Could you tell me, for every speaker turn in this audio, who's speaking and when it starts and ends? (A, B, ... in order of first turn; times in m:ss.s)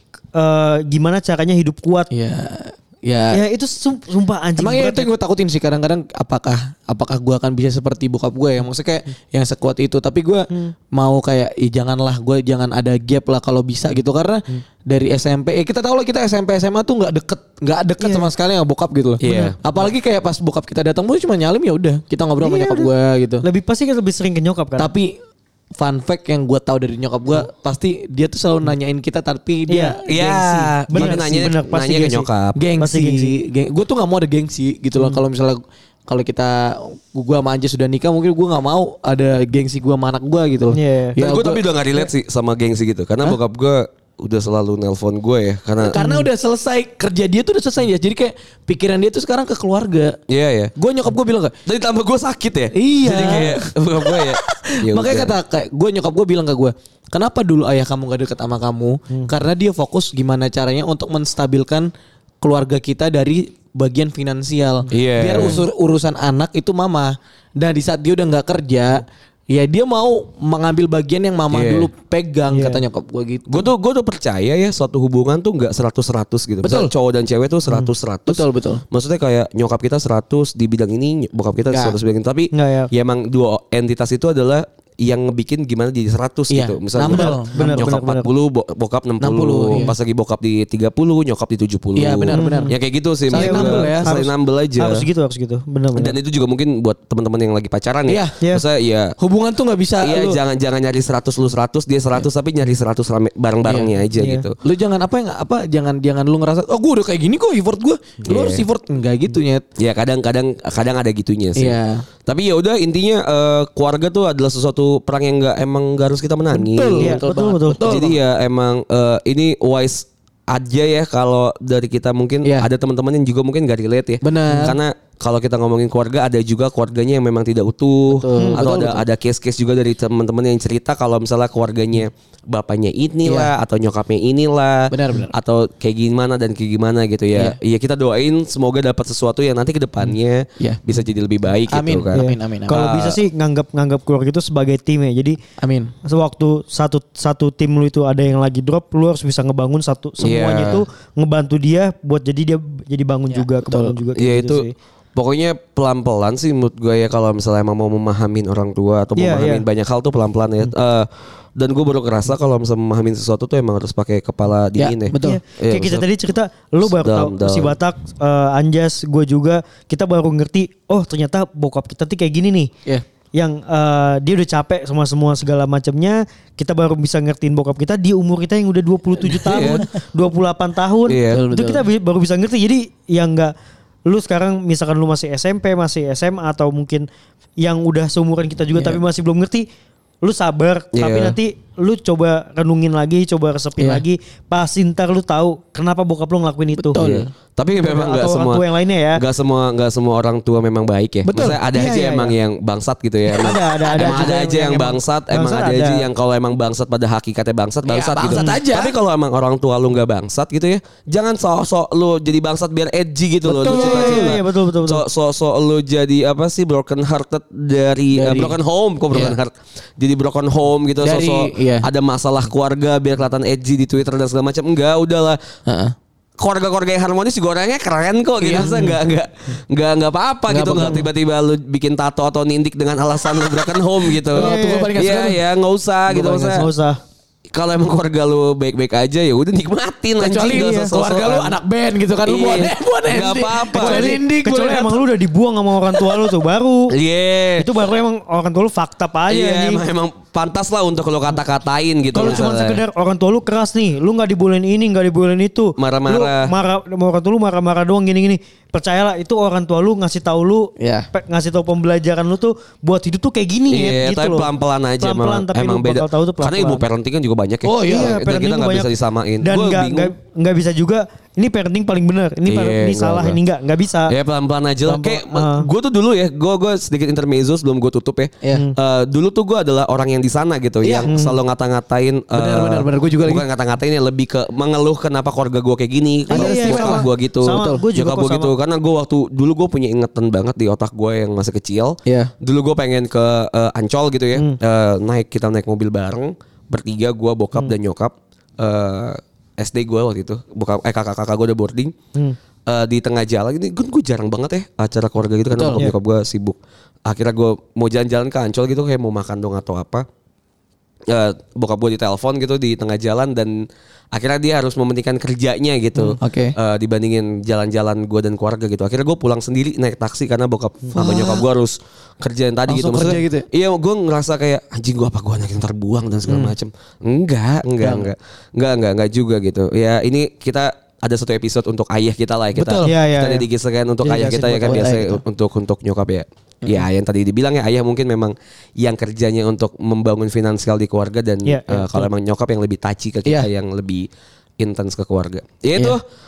0:00.3-0:02.1 A
0:02.1-0:03.4 B
0:03.3-0:05.1 A
0:04.6-0:23.4 B
0:18.0-0:18.3 A
0:19.2-0:19.6 C
0:19.2-0:19.6 A
0:22.4-0:22.9 A
0:23.4-0:24.9 A
0:24.8-0:25.1 B
0:25.8-0:31.5 B
0:29.7-0:30.0 A
0:30.1-0:32.6 C
0:30.9-0:32.3 A
0:32.6-0:41.6 B
0:32.8-0:33.3 A
0:40.7-0:41.2 A
0:41.2-0:46.0 C
0:45.8-0:50.2 B
0:46.0-0:46.3 A
0:50.3-0:50.7 C
0:50.8-0:51.6 B
0:51.7-0:55.4 C
0:52.7-1:01.9 B
1:02.4-1:13.6 B
1:04.9-1:05.6 C
1:11.5-1:11.9 C
1:12.5-1:12.8 A
1:13.5-1:35.0 C
1:16.6-1:16.9 B
1:18.3-1:18.8 B
1:21.7-1:22.0 B
1:22.5-1:22.9 A
1:26.5-1:27.9 B
1:27.1-1:28.3 A
1:29.2-1:29.9 B
1:32.0-1:32.7 B
1:32.3-1:32.8 A
1:33.3-1:34.1 B
1:33.3-1:36.2 A
1:36.0-1:39.1 C
1:38.1-1:38.4 B
1:39.2-1:40.4 B
1:40.0-1:44.6 C
1:44.2-1:44.5 A
1:44.6-1:49.6 B
1:48.3-1:48.6 C
1:49.8-1:57.2 C
1:51.6-1:52.0 B
1:56.5-1:58.2 B
1:57.0-1:58.0 A
1:57.8-2:23.2 C
2:04.2-2:04.8 B
2:08.1-2:09.0 B
2:13.2-2:13.5 B
2:14.9-2:15.3 B
2:21.7-2:22.9 B
2:22.1-2:25.4 A
2:25.6-2:25.9 B
2:26.0-2:34.7 A
2:30.2-2:30.8 C
2:33.3-2:34.0 B
2:34.2-2:46.0 C
2:39.2-2:39.6 A
2:44.8-2:45.4 B
2:45.2-2:52.7 A
2:46.8-2:47.8 C
2:53.4-3:03.5 A
2:59.2-2:59.9 B
3:01.1-3:01.4 C
3:01.3-3:01.8 B
3:04.1-3:07.1 A
3:07.6-3:09.7 A
3:08.8-3:09.0 B
3:10.2-3:17.0 A
3:10.9-3:11.4 C
3:13.8-3:14.0 B
3:16.8-3:17.3 B
3:17.0-3:18.6 C
3:17.8-3:19.2 A
3:19.2-3:45.4 C
3:21.3-3:21.6 B
3:21.7-3:22.4 A
3:23.3-3:26.1 A
3:23.9-3:24.3 B
3:27.9-3:28.9 B
3:28.4-3:28.6 A
3:33.4-3:34.3 B
3:33.7-3:35.0 A
3:38.2-3:38.6 B
3:39.1-3:39.4 B
3:41.0-3:41.9 B
3:45.7-3:45.9 B
3:46.4-3:56.6 C
3:48.4-3:48.8 B
3:48.6-3:48.9 A
3:50.5-3:51.1 B
3:54.3-3:55.4 B
3:54.3-3:54.9 A
3:56.1-3:56.6 B
3:56.4-3:57.0 A
3:57.5-4:01.5 C
4:00.2-4:05.0 B
4:00.4-4:01.0 A
4:02.2-4:04.2 C
4:03.7-4:07.0 A
4:06.9-4:07.7 C
4:07.6-4:09.8 A
4:09.3-4:12.8 C
4:12.2-4:24.5 A
4:12.2-4:12.4 B
4:15.8-4:16.5 C
4:20.8-4:21.1 B
4:23.7-4:30.1 C
4:25.0-4:26.8 A
4:27.6-4:28.2 B
4:27.9-4:28.9 A
4:29.4-4:34.1 A
4:32.5-4:33.4 C
4:34.1-5:01.9 C
4:34.9-4:35.7 A
4:40.8-4:41.1 B
4:41.1-4:41.4 A
4:42.3-4:43.4 B
4:46.3-4:47.8 B
4:46.3-4:48.5 A
4:52.0-4:52.3 B
5:02.7-5:10.1 C
5:05.5-5:05.8 B
5:11.1-5:13.6 C
5:14.1-5:44.1 C
5:16.1-5:16.6 B
5:20.9-5:21.4 B
5:22.7-5:23.4 B
5:26.3-5:26.5 B
5:27.8-5:28.1 B
5:32.6-5:32.9 B
5:32.8-5:33.5 A
5:34.0-5:35.0 A
5:34.4-5:35.2 B
5:41.5-5:42.1 A
5:44.6-5:46.0 C